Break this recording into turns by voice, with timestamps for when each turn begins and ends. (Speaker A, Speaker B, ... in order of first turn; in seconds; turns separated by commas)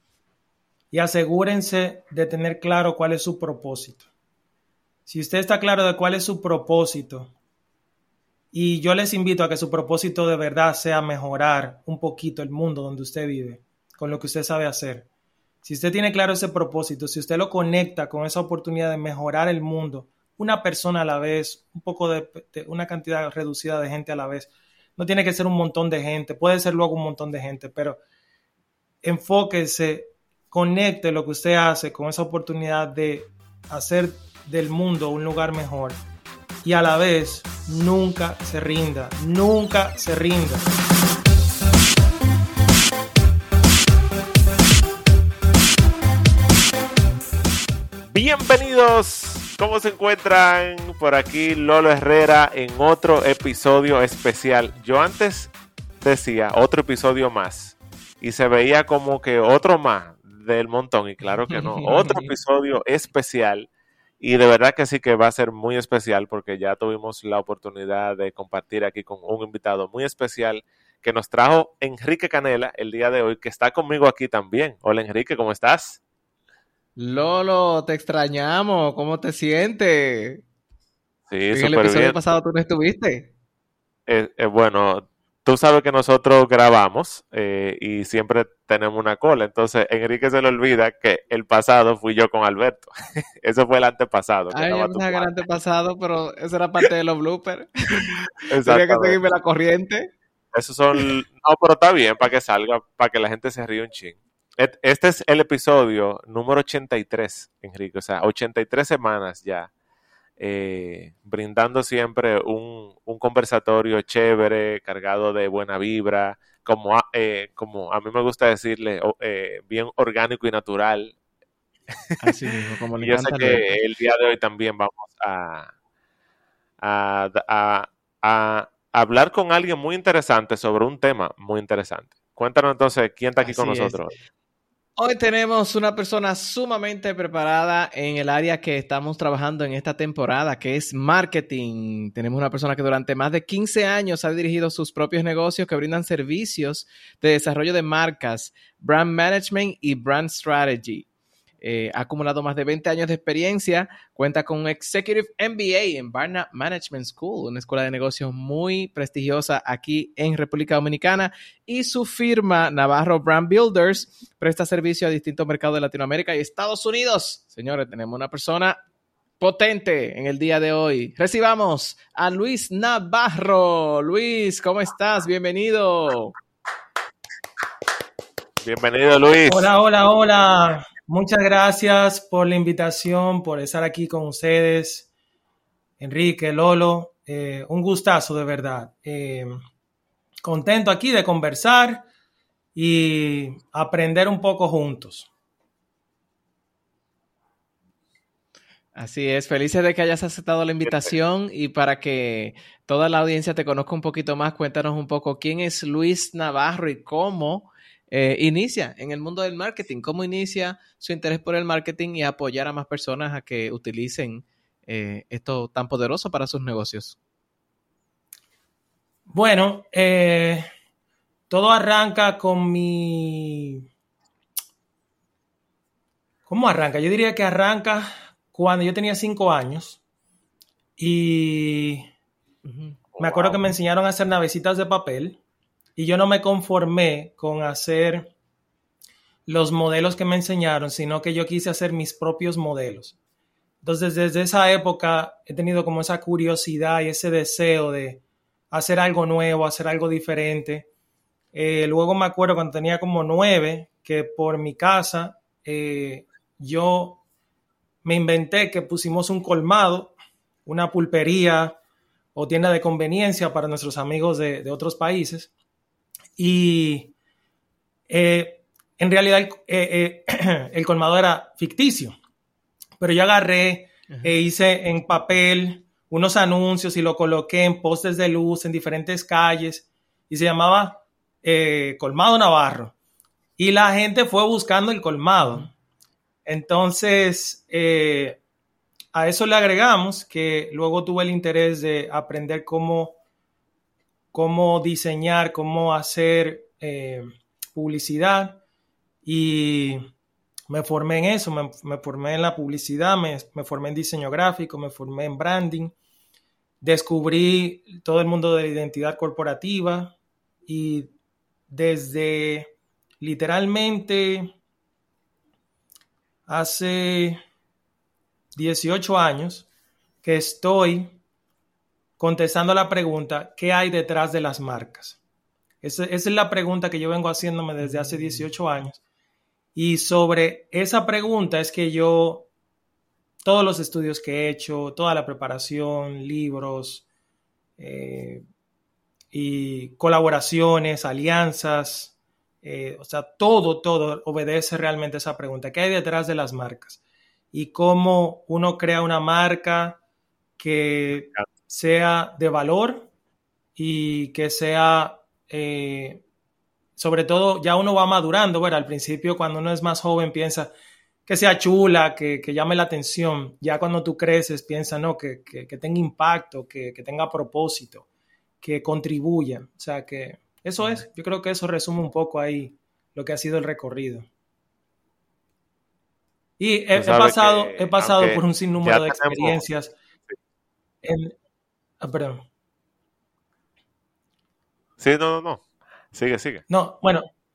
Speaker A: 0.9-4.0, Speaker A: 5.1-7.3, Speaker A: 8.5-15.1, Speaker A: 15.6-28.0, Speaker A: 29.0-36.0, Speaker A: 36.6-40.7, Speaker B: 48.1-63.7, Speaker C: 61.5-62.3, Speaker B: 64.2-76.0, Speaker C: 77.0-80.4, Speaker B: 81.3-82.2, Speaker C: 81.5-83.3, Speaker B: 84.1-95.4, Speaker C: 94.5-100.1, Speaker B: 98.5-99.2, Speaker B: 100.5-109.7, Speaker B: 110.4-121.2, Speaker B: 121.9-122.2, Speaker C: 122.2-123.7, Speaker B: 123.0-125.7, Speaker B: 126.8-134.1, Speaker C: 133.4-134.0, Speaker C: 135.0-151.1, Speaker C: 151.6-168.8, Speaker C: 169.4-176.3, Speaker B: 178.6-179.7, Speaker A: 179.5-185.1, Speaker A: 186.0-189.6, Speaker A: 190.4-192.1, Speaker A: 192.7-195.3, Speaker C: 198.9-217.2, Speaker A: 219.3-220.7, Speaker A: 221.5-223.8, Speaker A: 226.5-230.0, Speaker A: 231.0-232.1, Speaker C: 232.6-233.0, Speaker B: 233.1-233.6, Speaker A: 233.2-235.4, Speaker A: 235.9-238.3, Speaker A: 239.4-243.1, Speaker A: 243.8-250.9, Speaker A: 251.5-257.2, Speaker A: 258.0-260.1, Speaker A: 260.6-261.8, Speaker A: 262.3-265.5, Speaker A: 266.4-267.1, Speaker A: 268.1-272.1, Speaker A: 273.0-282.9, Speaker A: 283.6-285.7, Speaker C: 285.4-285.7, Speaker A: 286.4-288.4, Speaker A: 289.1-293.1, Speaker A: 294.3-298.6, Speaker A: 299.2-300.1, Speaker A: 300.7-305.9, Speaker A: 306.8-310.1, Speaker A: 310.6-311.1, Speaker A: 311.7-314.5, Speaker A: 316.5-317.4, Speaker A: 318.5-319.7, Speaker A: 320.2-321.1, Speaker A: 322.2-325.2, Speaker A: 325.8-329.0, Speaker C: 327.8-328.5, Speaker A: 329.7-332.5, Speaker A: 333.4-337.0, Speaker A: 337.8-338.4, Speaker A: 339.3-347.0, Speaker A: 347.5-350.0, Speaker A: 350.6-353.1, Speaker A: 353.8-356.2, Speaker A: 357.0-360.7, Speaker A: 361.2-368.0, Speaker A: 368.6-374.3, Speaker A: 376.6-379.9, Speaker B: 376.9-379.6, Speaker A: 381.0-381.3, Speaker A: 382.0-382.4, Speaker B: 385.0-386.6, Speaker A: 386.7-387.3